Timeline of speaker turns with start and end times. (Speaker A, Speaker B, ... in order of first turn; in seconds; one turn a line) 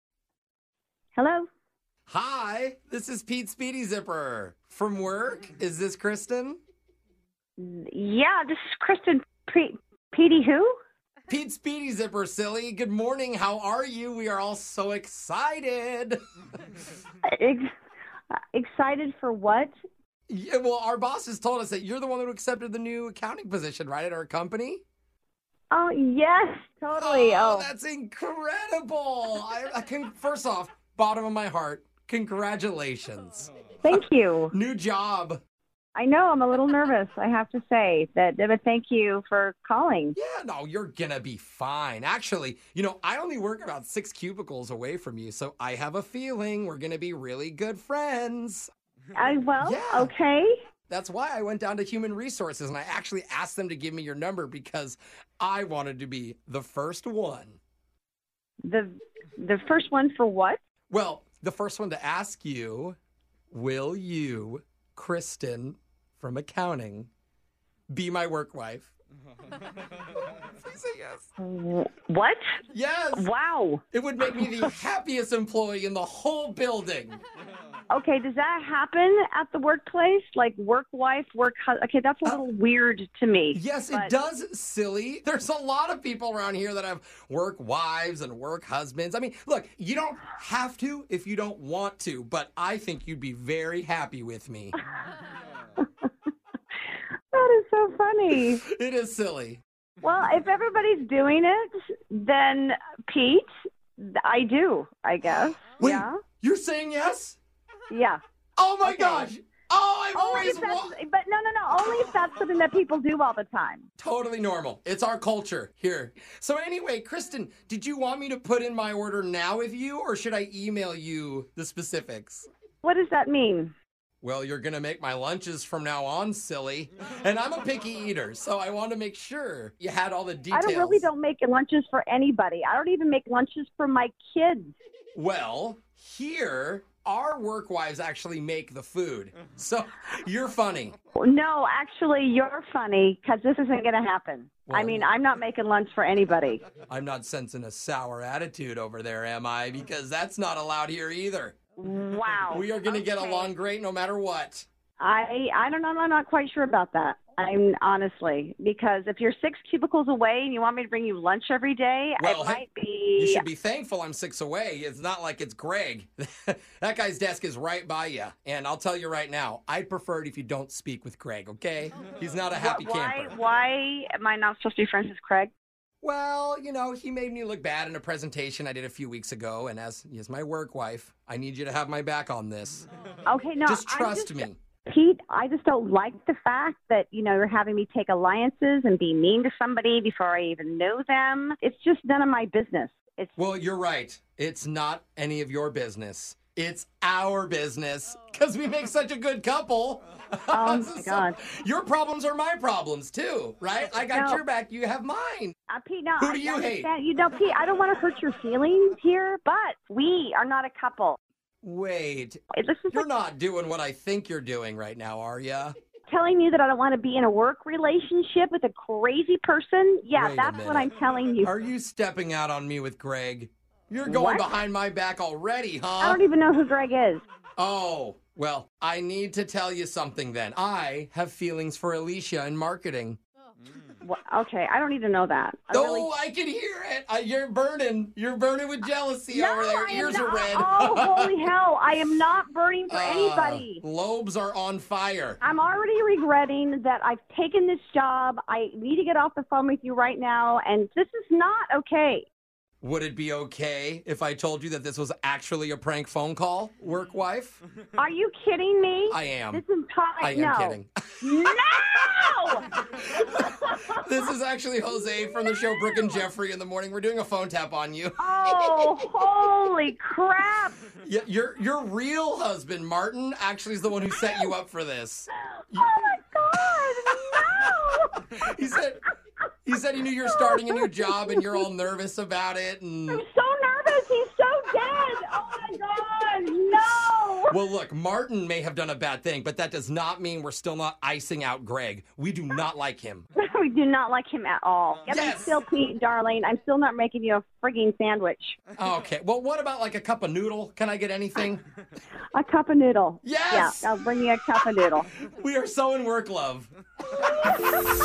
Speaker A: 1.1-1.5
Speaker B: 2.1-6.6
Speaker A: 7.6-10.7
Speaker B: 11.3-16.2
Speaker A: 17.3-17.7
Speaker A: 18.5-19.7
Speaker B: 20.3-24.8
Speaker A: 25.7-27.7
Speaker B: 27.0-35.4
Speaker A: 33.8-34.5
Speaker A: 35.9-40.1
Speaker B: 40.1-48.7
Speaker A: 49.1-50.5
Speaker B: 49.6-50.1
Speaker B: 50.9-57.6
Speaker A: 58.6-60.6
Speaker B: 60.9-63.0
Speaker B: 63.5-67.1
Speaker B: 67.9-68.9
Speaker B: 70.6-71.2
Speaker A: 71.4-72.4
Speaker B: 72.7-73.3
Speaker A: 73.1-73.8
Speaker B: 73.9-77.2
Speaker A: 77.9-84.1
Speaker B: 83.5-94.7
Speaker A: 97.3-98.6
Speaker B: 98.6-99.6
Speaker A: 100.0-103.5
Speaker A: 104.0-106.2
Speaker B: 105.8-107.4
Speaker A: 107.9-108.2
Speaker B: 108.6-110.9
Speaker A: 108.8-109.3
Speaker A: 110.1-113.8
Speaker B: 114.0-122.5
Speaker A: 122.8-123.7
Speaker B: 124.2-131.1
Speaker A: 130.5-134.7
Speaker B: 135.1-140.9
Speaker A: 141.2-146.6
Speaker B: 144.7-145.1
Speaker B: 146.9-151.6
Speaker A: 151.8-153.5
Speaker B: 152.5-154.7
Speaker A: 155.0-163.4
Speaker B: 162.2-162.6
Speaker B: 163.2-173.3
Speaker A: 172.6-175.5
Speaker B: 176.0-182.8
Speaker A: 183.2-193.3
Speaker B: 183.6-184.6
Speaker B: 193.4-205.6
Speaker A: 200.5-201.3
Speaker A: 204.1-204.4
Speaker A: 205.7-211.2
Speaker B: 206.2-206.9
Speaker B: 211.6-212.4
Speaker A: 212.5-213.1
Speaker B: 212.9-215.7
Speaker A: 216.1-221.5
Speaker B: 220.1-226.2
Speaker A: 224.1-224.5
Speaker A: 226.0-227.2
Speaker B: 227.6-233.2
Speaker A: 234.0-236.1
Speaker B: 235.7-241.3
Speaker A: 239.3-243.8
Speaker B: 242.9-245.4
Speaker A: 245.4-252.3
Speaker B: 252.8-257.6
Speaker A: 258.0-262.6
Speaker B: 259.1-259.6
Speaker B: 260.2-261.5
Speaker A: 263.3-264.0
Speaker B: 264.0-268.2
Speaker A: 265.1-266.1
Speaker A: 268.2-270.8
Speaker B: 271.0-275.9
Speaker A: 274.2-274.5
Speaker A: 275.7-278.2
Speaker B: 278.4-279.0
Speaker B: 279.6-283.2
Speaker A: 280.2-281.6
Speaker A: 283.1-287.5
Speaker B: 287.5-293.2
Speaker A: 293.4-298.6
Speaker B: 295.1-295.5
Speaker B: 298.8-301.6
Speaker A: 302.3-305.1
Speaker B: 303.2-303.9
Speaker B: 305.2-306.7
Speaker A: 307.2-307.7